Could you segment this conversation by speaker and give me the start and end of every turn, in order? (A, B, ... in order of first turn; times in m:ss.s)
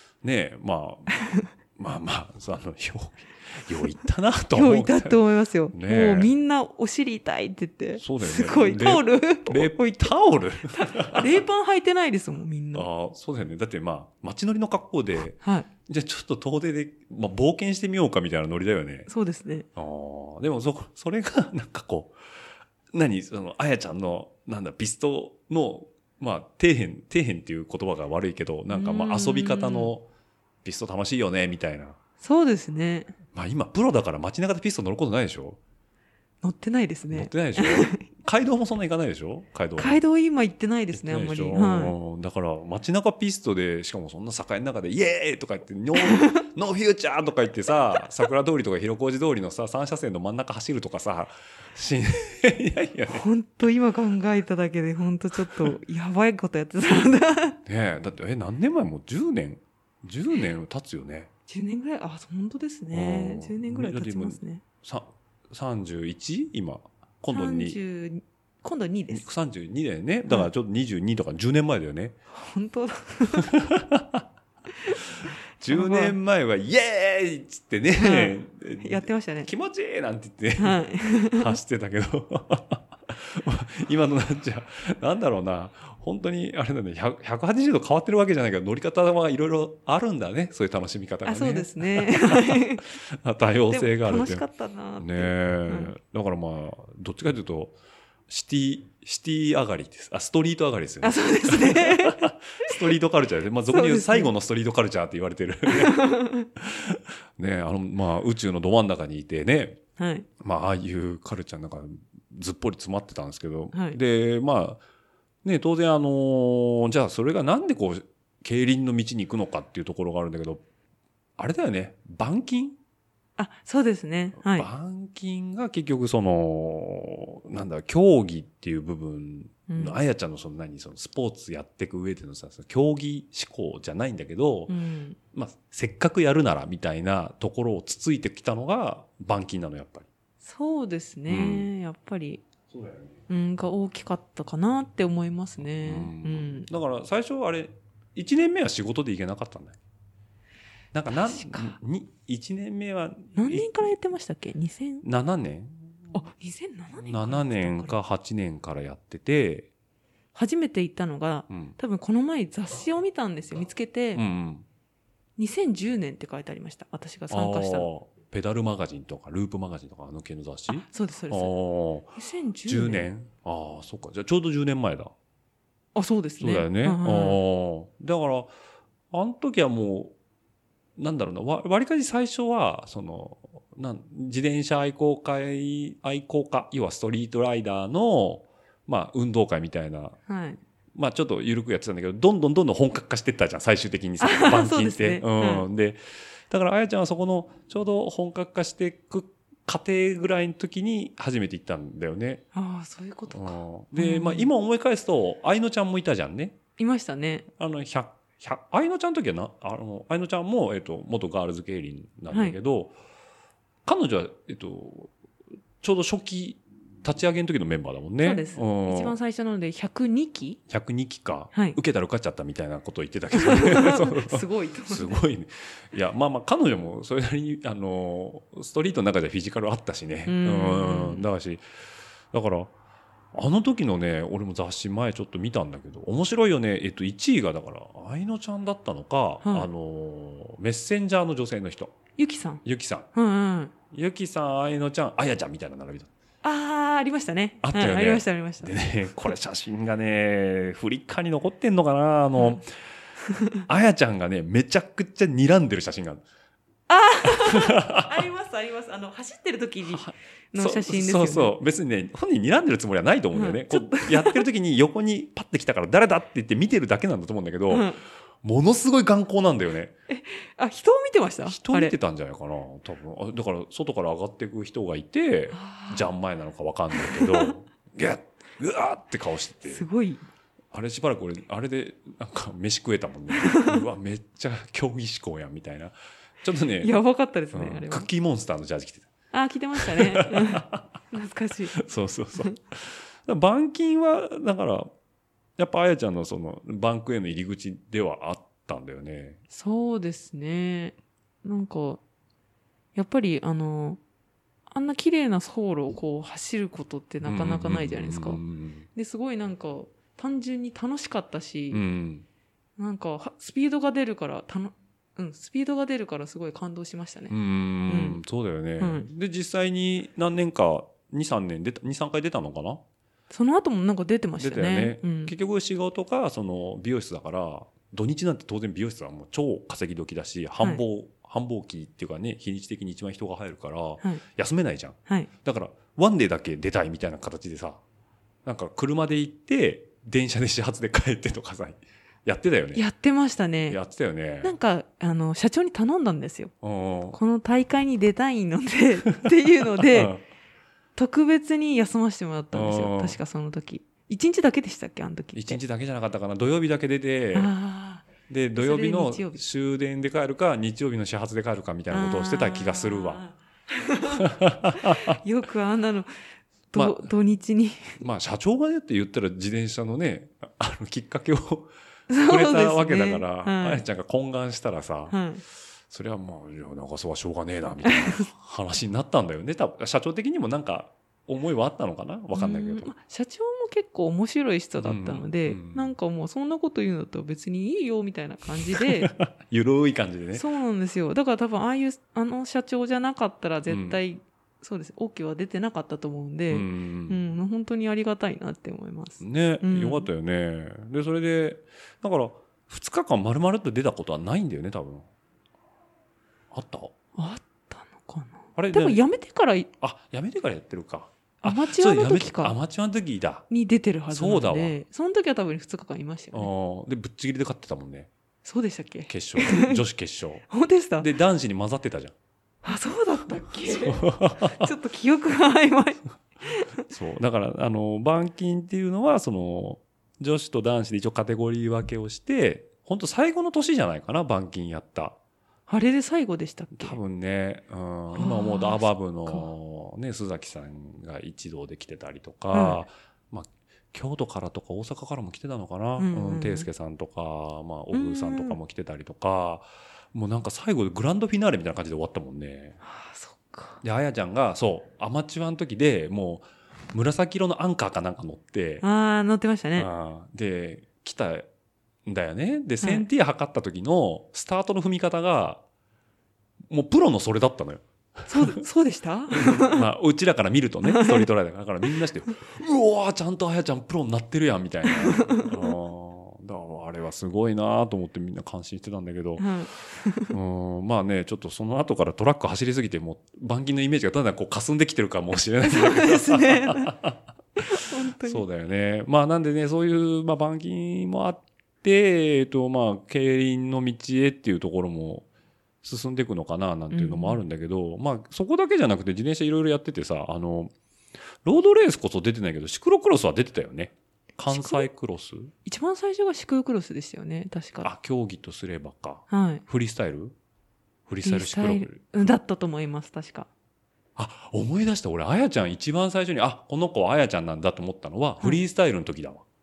0:00.2-0:01.1 A
0:01.8-0:05.2 A
0:04.5-0:12.9 B
0:05.7-0:06.3 A
0:08.0-0:11.4 A
0:12.7-0:19.1 A
0:15.4-0:15.7 B
0:19.1-0:19.7 B
0:19.7-0:22.2 A
0:22.9-0:30.0 A
0:28.7-0:29.9 B
0:30.6-0:32.0 A
0:32.2-0:33.1 B
0:33.3-0:35.6 A
0:36.4-0:38.0 B
0:37.1-0:40.0 A
0:39.8-0:41.9 B
0:40.9-0:53.2 A
0:46.0-0:46.4 B
0:53.1-0:57.6 B
0:55.4-0:55.7 A
0:57.6-1:01.3 A
1:01.5-1:04.6 B
1:02.9-1:07.8 A
1:07.3-1:09.3 B
1:09.1-1:12.2 A
1:12.3-1:13.5 B
1:13.4-1:14.2 A
1:15.6-1:20.8 A
1:15.6-1:16.1 B
1:18.0-1:19.5 B
1:20.6-1:21.6 B
1:21.3-1:34.4 A
1:31.2-1:32.9 B
1:33.7-1:35.9 B
1:35.0-1:37.8 A
1:38.3-1:49.8 A
1:41.0-1:42.7 B
1:43.7-1:44.3 B
1:45.6-1:46.5 B
1:50.0-1:50.3 B
1:50.4-1:54.8 A
1:53.7-1:54.0 B
1:55.4-2:00.6 A
2:01.4-2:02.8 A
2:03.4-2:04.7 B
2:04.4-2:14.7 A
2:09.7-2:10.0 B
2:14.7-2:15.2 B
2:15.3-2:20.0 A
2:20.4-2:22.4 B
2:21.3-2:21.7 A
2:22.7-2:23.2 A
2:23.3-2:26.7 B
2:25.8-2:29.8 A
2:30.9-2:33.9 A
2:31.1-2:31.7 B
2:33.3-2:35.0 B
2:35.0-2:36.1 A
2:36.1-2:38.0 B
2:37.0-2:39.7 A
2:40.3-2:44.2 B
2:41.5-2:41.8 A
2:44.1-2:44.6 A
2:45.4-2:47.9 B
2:47.3-2:52.1 A
2:50.7-2:51.5 B
2:52.1-2:53.1 B
2:52.6-2:55.1 A
2:55.9-2:57.4 B
2:56.4-2:58.5 A
2:59.1-3:00.1 A
3:01.0-3:10.2 A
3:10.3-3:10.6 B
3:10.9-3:22.4 A
3:14.2-3:15.6 B
3:22.5-3:24.5 B
3:23.3-3:26.6 A
3:26.8-3:27.4 B
3:27.6-3:32.9 A
3:32.3-3:32.6 B
3:33.8-3:35.1 A
3:35.8-3:39.2 A
3:38.2-3:40.6 B
3:40.7-3:51.6 A
3:43.3-3:45.2 B
3:50.2-3:51.3 B
3:52.3-3:52.7 A
3:53.3-4:01.9 A
3:59.4-3:59.7 B
4:02.2-4:02.6 B
4:02.6-4:03.1 A
4:03.1-4:03.7 B
4:03.9-4:06.1 A
4:06.4-4:08.8 B
4:07.6-4:12.6 A
4:13.6-4:16.2 A
4:16.9-4:21.6 B
4:17.4-4:18.2 A
4:19.9-4:27.9 A
4:23.3-4:24.4 B
4:27.7-4:28.0 B
4:28.4-4:29.9 A
4:30.1-4:31.9 B
4:31.4-4:39.8 A
4:35.5-4:36.1 B
4:36.9-4:37.5 B
4:39.6-4:40.2 B
4:40.7-4:46.9 A
4:43.3-4:43.8 B
4:46.8-4:48.1 B
4:47.5-4:49.1 A
4:49.3-4:51.8 B
4:49.8-4:50.8 A
4:51.7-4:54.9 A
4:55.6-4:59.4 A
4:59.5-5:02.0 B
5:02.9-5:04.0 B
5:04.7-5:08.4 B
5:07.2-5:08.8 A
5:08.9-5:11.8 B
5:11.7-5:12.2 A
5:12.8-5:17.3 B
5:17.3-5:22.8 A
5:17.9-5:18.2 B
5:18.8-5:19.1 B
5:23.3-5:25.3 B
5:24.4-5:37.8 A
5:38.4-5:42.8 A
5:42.7-5:43.8 B
5:43.7-5:44.5 A
5:44.4-5:46.5 B
5:46.6-5:47.2 A
5:47.1-5:50.1 B
5:49.8-5:50.2 A
5:51.0-5:55.6 B
5:52.5-5:53.2 A
5:55.3-5:57.5 A
5:57.3-5:59.4 B
5:58.3-6:03.2 A
6:01.9-6:08.0 B
6:04.1-6:05.1 A
6:06.7-6:07.1 A
6:08.0-6:11.7 A
6:12.1-6:13.8 B
6:12.2-6:15.2 A
6:15.1-6:15.4 B
6:15.9-6:22.9 A
6:17.8-6:18.3 B
6:22.3-6:29.1 B
6:24.8-6:25.9 A
6:28.7-6:30.4 A
6:30.3-6:40.1 B
6:33.7-6:34.0 A
6:36.5-6:37.2 A
6:39.2-6:45.1 A
6:46.5-6:46.9 A
6:47.2-6:49.7 B
6:48.6-6:49.0 A
6:49.8-6:53.5 A
6:51.4-6:52.5 B
6:53.5-6:56.5 B
6:54.1-6:54.8 A
6:56.3-6:58.1 A
6:58.4-6:59.8 B
6:59.1-7:00.5 A
7:00.5-7:01.1 B
7:01.0-7:02.1 A
7:02.6-7:06.7 B
7:03.6-7:04.7 A
7:06.9-7:15.2 A
7:15.7-7:17.0 B
7:16.7-7:32.8 A
7:18.1-7:19.5 B
7:22.5-7:22.8 B
7:26.0-7:26.7 B
7:27.9-7:28.6 B
7:32.8-7:33.8 B
7:33.8-7:38.8 A
7:38.8-7:39.9 B
7:39.8-7:41.5 A
7:42.0-7:45.6 A
7:42.8-7:43.1 B
7:46.7-7:48.6 A
7:48.3-7:49.9 B
7:49.3-7:59.5 A
7:50.8-7:51.3 B
7:55.0-7:55.5 B
7:59.4-8:00.3 B
8:00.3-8:07.2 A
8:05.6-8:06.9 B
8:07.6-8:08.4 B
8:08.2-8:15.2 A
8:15.8-8:20.7 A
8:16.9-8:17.4 B
8:21.4-8:25.5 A
8:24.5-8:24.9 B
8:25.6-8:27.9 B
8:27.8-8:30.4 A
8:29.3-8:29.6 B
8:31.1-8:32.3 A
8:31.2-8:33.5 B
8:34.2-8:39.4 A